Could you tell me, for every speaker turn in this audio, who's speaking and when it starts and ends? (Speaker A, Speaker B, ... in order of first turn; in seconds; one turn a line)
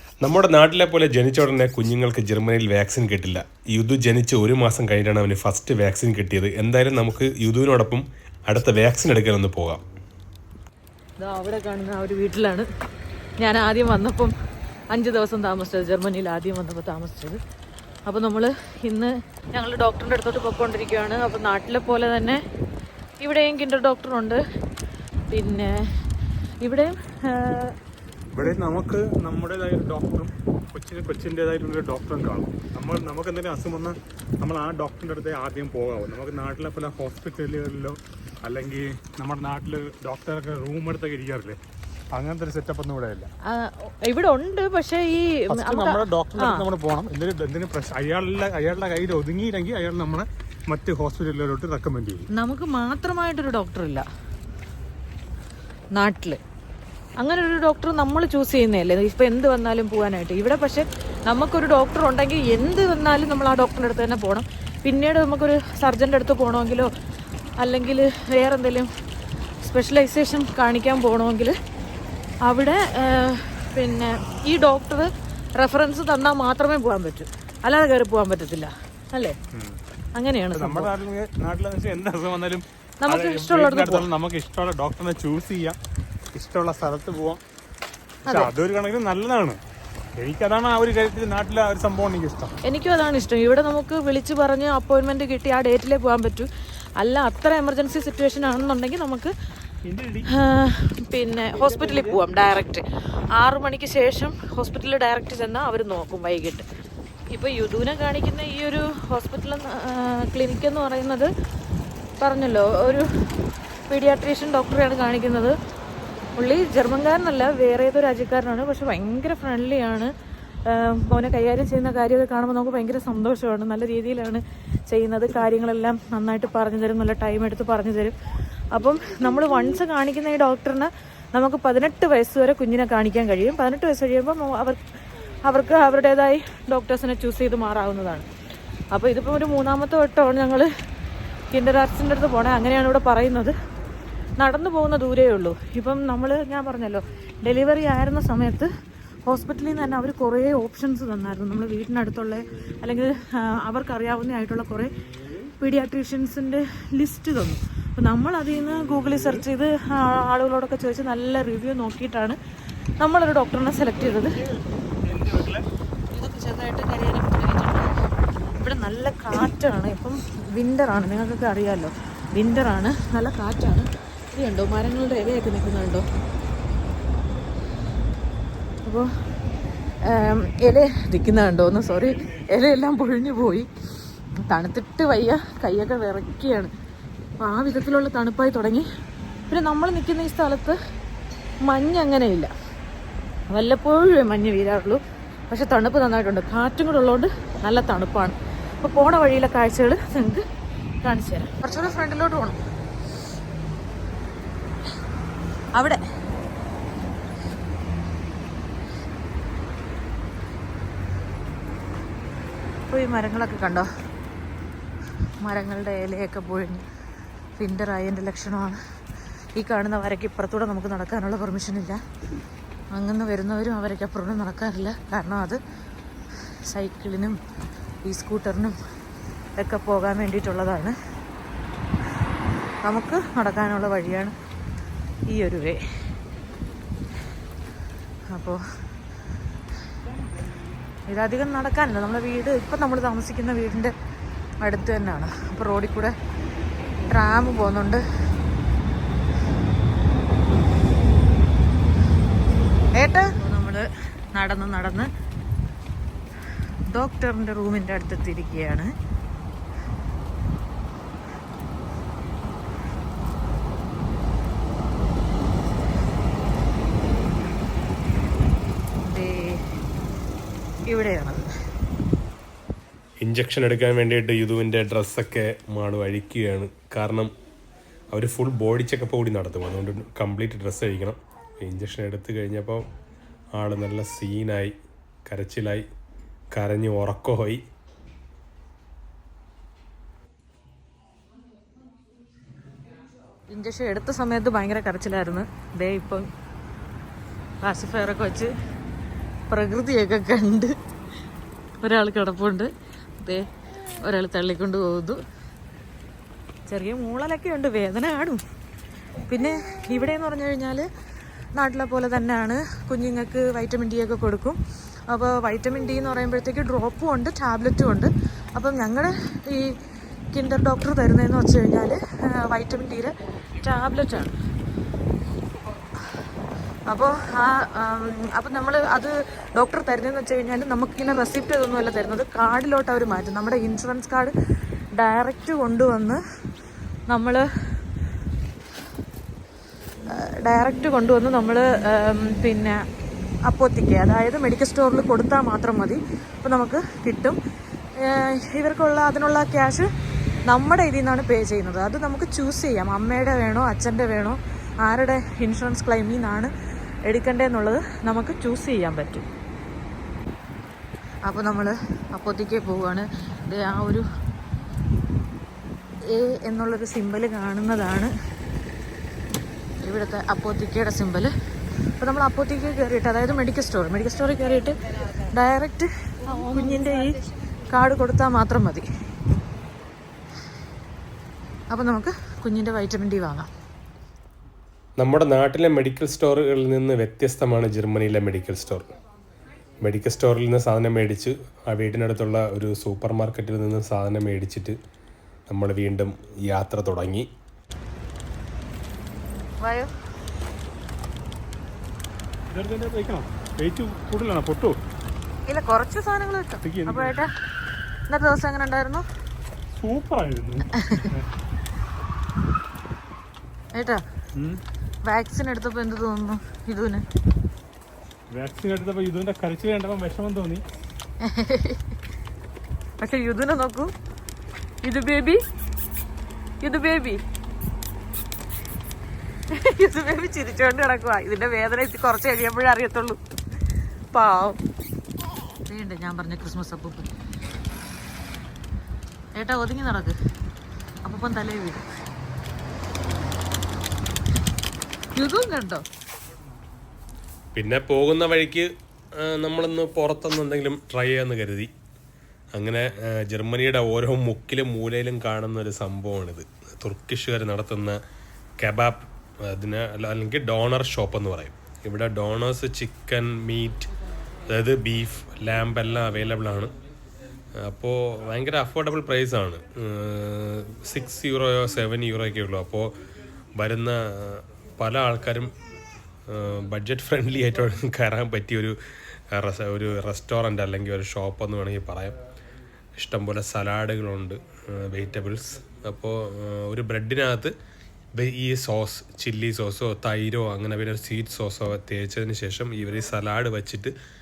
Speaker A: 0.2-9.8
Speaker B: 11.2-12.7
Speaker B: 13.4-14.3
Speaker B: 14.9-17.4
Speaker B: 18.1-22.4
Speaker B: 23.2-24.4
Speaker B: 25.3-25.7
Speaker B: 26.6-27.8
Speaker C: 28.3-41.6
Speaker C: 42.1-43.3
Speaker B: 43.5-46.6
Speaker C: 45.5-52.3
Speaker B: 52.3-54.0
Speaker B: 56.0-56.4
Speaker B: 57.2-66.9
Speaker B: 67.6-68.9
Speaker B: 69.6-71.5
Speaker B: 72.5-79.4
Speaker C: 79.5-79.8
Speaker B: 80.2-80.9
Speaker C: 80.5-85.8
Speaker B: 83.0-84.1
Speaker C: 86.3-87.4
Speaker C: 88.2-89.6
Speaker B: 88.3-88.5
Speaker C: 90.2-92.6
Speaker B: 92.7-96.5
Speaker B: 97.0-99.3
Speaker C: 99.9-100.3
Speaker B: 100.3-102.8
Speaker C: 101.5-102.2
Speaker B: 103.4-106.7
Speaker B: 107.3-111.3
Speaker B: 112.2-113.1
Speaker B: 113.9-115.5
Speaker B: 116.4-120.1
Speaker B: 120.7-128.2
Speaker B: 128.7-134.8
Speaker B: 135.5-138.3
Speaker B: 138.9-140.7
Speaker B: 141.5-143.5
Speaker B: 144.4-148.7
Speaker B: 149.3-154.9
Speaker B: 155.6-162.4
Speaker C: 158.8-159.4
Speaker B: 163.0-164.4
Speaker C: 164.0-165.7
Speaker B: 166.1-168.0
Speaker B: 168.5-176.1
Speaker B: 180.0-183.7
Speaker B: 184.5-186.7
Speaker B: 187.4-188.9
Speaker B: 189.5-190.8
Speaker B: 191.7-192.5
Speaker B: 193.5-200.4
Speaker B: 201.0-202.6
Speaker B: 205.8-206.0
Speaker B: 212.9-213.9
Speaker B: 215.4-216.8
Speaker B: 217.6-218.8
Speaker B: 219.6-222.0
Speaker B: 222.9-225.6
Speaker B: 226.7-227.4
Speaker B: 228.1-228.8
Speaker B: 229.6-230.9
Speaker B: 232.8-234.3
Speaker B: 235.3-235.8
Speaker B: 238.3-238.6
Speaker B: 241.1-243.9
Speaker B: 244.6-246.1
Speaker B: 247.1-248.0
Speaker B: 253.0-255.1
Speaker B: 256.9-258.9
Speaker B: 269.1-269.6
Speaker B: 270.9-271.5
Speaker A: 273.2-277.3
Speaker A: 278.1-282.8
Speaker A: 283.6-284.7
Speaker A: 285.3-285.9
Speaker A: 286.5-287.6
Speaker B: 293.5-296.3
Speaker B: 297.6-298.5
Speaker B: 299.5-300.7
Speaker B: 301.8-302.7
Speaker B: 304.0-305.2
Speaker B: 306.7-308.4
Speaker B: 309.3-310.9
Speaker B: 311.6-314.6
Speaker B: 315.1-319.8
Speaker B: 320.3-324.4
Speaker B: 326.9-334.3
Speaker B: 335.0-336.2
Speaker B: 337.1-337.4
Speaker B: 340.1-342.8
Speaker B: 343.5-347.4
Speaker B: 348.0-349.9
Speaker B: 350.5-356.5
Speaker B: 357.1-359.3
Speaker B: 361.3-364.0
Speaker B: 366.1-368.1
Speaker B: 369.8-371.3
Speaker B: 372.0-378.8
Speaker B: 381.7-383.5
Speaker A: 385.0-388.9
Speaker A: 389.8-394.8
Speaker A: 395.5-397.3
Speaker B: 399.6-399.9
Speaker C: 402.5-404.8
Speaker B: 405.5-407.3
Speaker C: 406.6-407.2
Speaker B: 408.1-409.0
Speaker C: 409.7-411.3
Speaker B: 413.8-414.0
Speaker C: 414.4-414.6
Speaker B: 415.1-417.0
Speaker C: 418.3-420.6
Speaker B: 421.2-421.8
Speaker B: 423.0-423.9
Speaker B: 424.8-425.4
Speaker B: 426.6-427.2
Speaker B: 429.5-433.2
Speaker B: 434.1-434.6
Speaker B: 435.7-437.1
Speaker B: 439.4-440.1
Speaker B: 441.0-441.9
Speaker B: 445.2-445.8
Speaker A: 447.6-451.7
Speaker A: 452.6-458.0
Speaker A: 458.6-463.9
Speaker A: 464.5-466.7
Speaker A: 467.6-472.9
Speaker A: 473.6-475.5
Speaker A: 476.3-478.8
Speaker A: 479.3-482.1
Speaker A: 483.0-487.5
Speaker A: 488.2-493.9